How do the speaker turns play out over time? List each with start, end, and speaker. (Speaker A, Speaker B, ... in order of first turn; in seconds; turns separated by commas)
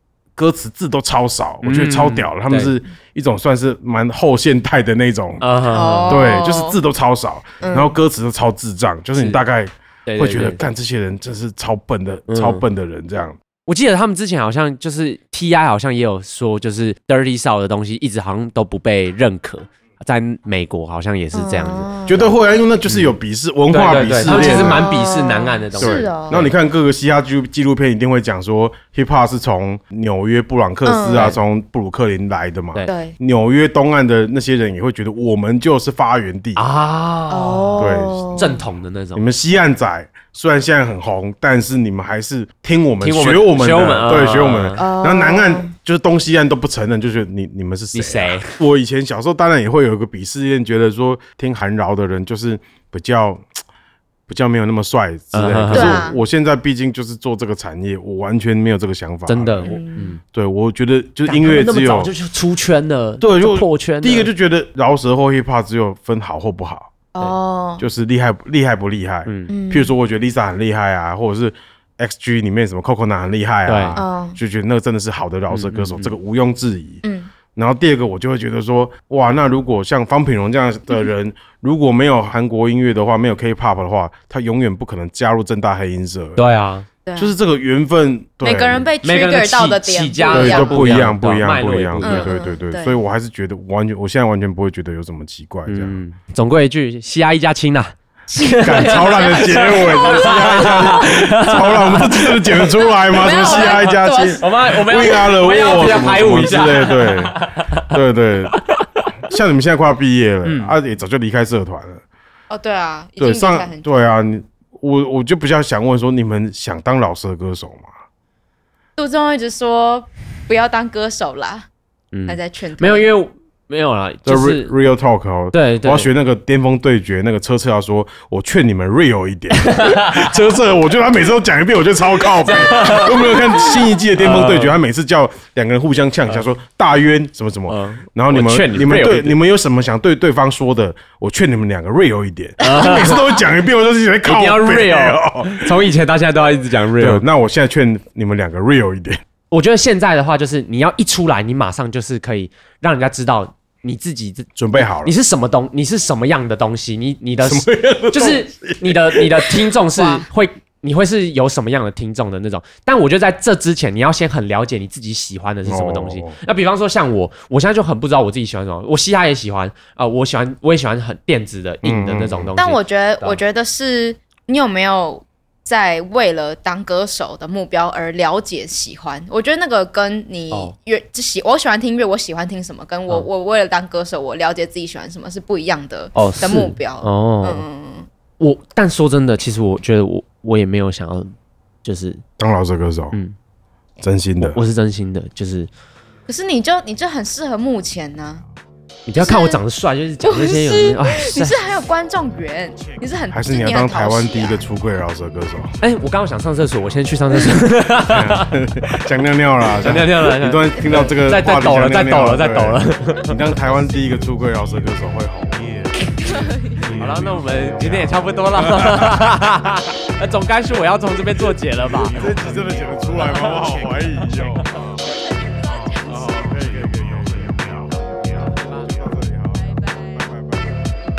Speaker A: 0.4-5.4, Speaker B: 1.6-2.7, Speaker B: 5.4-6.2, Speaker C: 5.7-6.8, Speaker A: 6.0-13.4, Speaker C: 7.6-7.9, Speaker B: 10.1-10.6, Speaker B: 12.3-12.6, Speaker B: 13.7-21.9, Speaker C: 21.3-22.3, Speaker A: 22.1-24.9, Speaker B: 23.7-26.5, Speaker C: 24.3-26.4, Speaker A: 25.8-36.6, Speaker C: 30.9-31.4, Speaker C: 32.9-33.1, Speaker B: 36.6-39.2, Speaker C: 37.3-38.6, Speaker A: 37.8-38.4, Speaker A: 39.1-53.4, Speaker B: 43.0-44.8, Speaker C: 44.8-45.7, Speaker B: 47.9-48.6, Speaker A: 54.3-59.7, Speaker B: 55.3-56.1, Speaker C: 55.7-56.2, Speaker B: 59.3-60.2, Speaker C: 59.6-60.1, Speaker A: 60.3-62.1, Speaker B: 61.3-64.3, Speaker A: 63.2-66.9, Speaker C: 67.1-67.9, Speaker A: 67.8-77.0, Speaker B: 69.2-69.5, Speaker C: 69.5-69.9, Speaker B: 73.7-74.0, Speaker C: 74.0-74.4, Speaker B: 75.5-76.1, Speaker C: 77.0-77.3, Speaker A: 77.5-86.4, Speaker B: 86.4-86.9, Speaker C: 87.1-87.3, Speaker A: 87.2-88.9, Speaker C: 88.4-90.9, Speaker B: 89.0-92.3, Speaker A: 90.3-96.0, Speaker C: 92.0-93.0, Speaker B: 95.7-108.0, Speaker C: 98.3-101.1, Speaker A: 98.6-108.6, Speaker C: 103.1-105.2, Speaker B: 108.5-109.1, Speaker A: 109.3-112.0, Speaker B: 110.4-110.7, Speaker C: 112.5-113.8, Speaker A: 113.2-117.9, Speaker C: 119.0-121.7, Speaker B: 122.1-124.7, Speaker C: 122.3-123.1, Speaker A: 124.2-145.7, Speaker B: 125.5-126.1, Speaker B: 129.6-130.3, Speaker B: 132.4-134.7, Speaker B: 137.7-139.4, Speaker B: 142.6-143.2, Speaker C: 142.8-143.4, Speaker B: 144.2-147.2, Speaker A: 147.0-149.2, Speaker B: 149.5-173.4, Speaker A: 154.6-155.1, Speaker A: 157.4-159.6, Speaker C: 159.9-160.3, Speaker A: 165.7-166.4, Speaker A: 171.8-172.5, Speaker C: 172.6-188.1, Speaker B: 186.1-187.6, Speaker B: 188.4-191.3, Speaker B: 191.8-192.2, Speaker A: 192.4-193.1, Speaker A: 194.0-194.6, Speaker B: 194.4-195.7, Speaker C: 196.3-198.4, Speaker B: 199.1-201.6, Speaker C: 199.2-199.6, Speaker C: 200.2-204.6, Speaker A: 203.3-205.8, Speaker B: 205.8-208.5, Speaker A: 208.0-215.6, Speaker B: 209.8-213.4, Speaker C: 216.2-216.8, Speaker B: 217.0-222.2, Speaker A: 217.9-219.2, Speaker A: 222.1-224.7, Speaker B: 223.2-223.6, Speaker C: 225.1-226.5, Speaker A: 226.0-230.8, Speaker C: 229.6-230.2